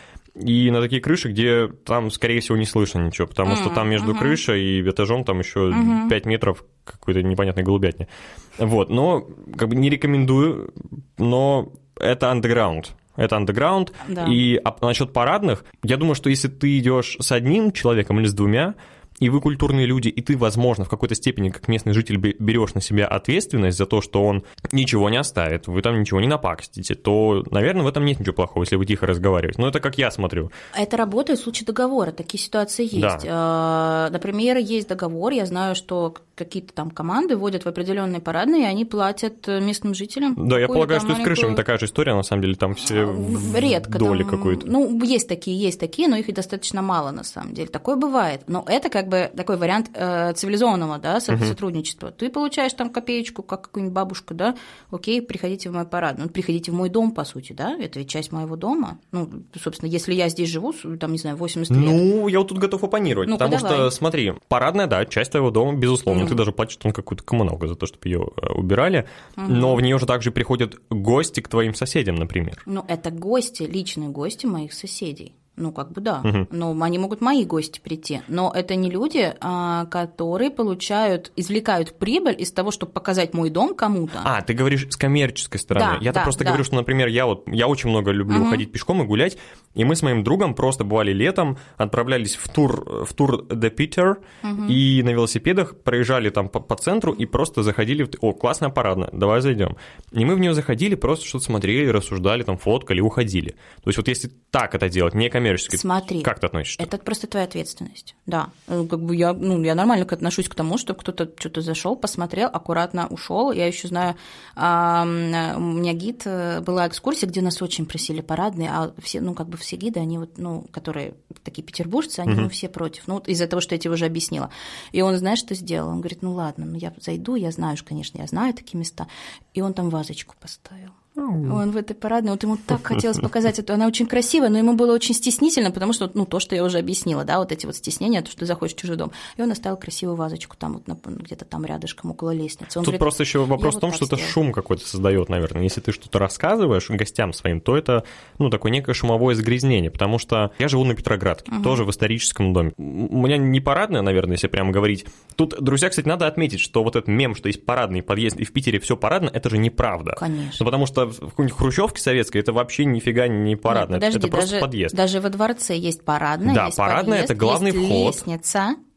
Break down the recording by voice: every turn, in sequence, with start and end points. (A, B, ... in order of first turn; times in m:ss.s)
0:00.4-0:30.5 A
0:03.4-0:04.4 B
0:05.7-0:06.1 B
0:14.0-0:14.4 B
0:30.7-0:41.6 B
0:32.9-0:33.2 A
0:40.4-0:44.7 A
0:42.8-1:02.0 B
1:01.7-1:12.6 A
1:03.2-1:03.9 B
1:06.1-1:06.4 B
1:09.4-1:09.8 B
1:12.6-1:24.3 B
1:24.2-1:46.9 A
1:25.7-1:26.6 B
1:28.3-1:28.6 B
1:34.4-1:34.8 B
1:45.7-2:24.4 B
2:11.2-2:11.6 A
2:22.8-2:44.9 A
2:31.5-2:31.8 B
2:40.2-2:40.6 B
2:43.7-2:48.8 B
2:46.4-2:48.2 A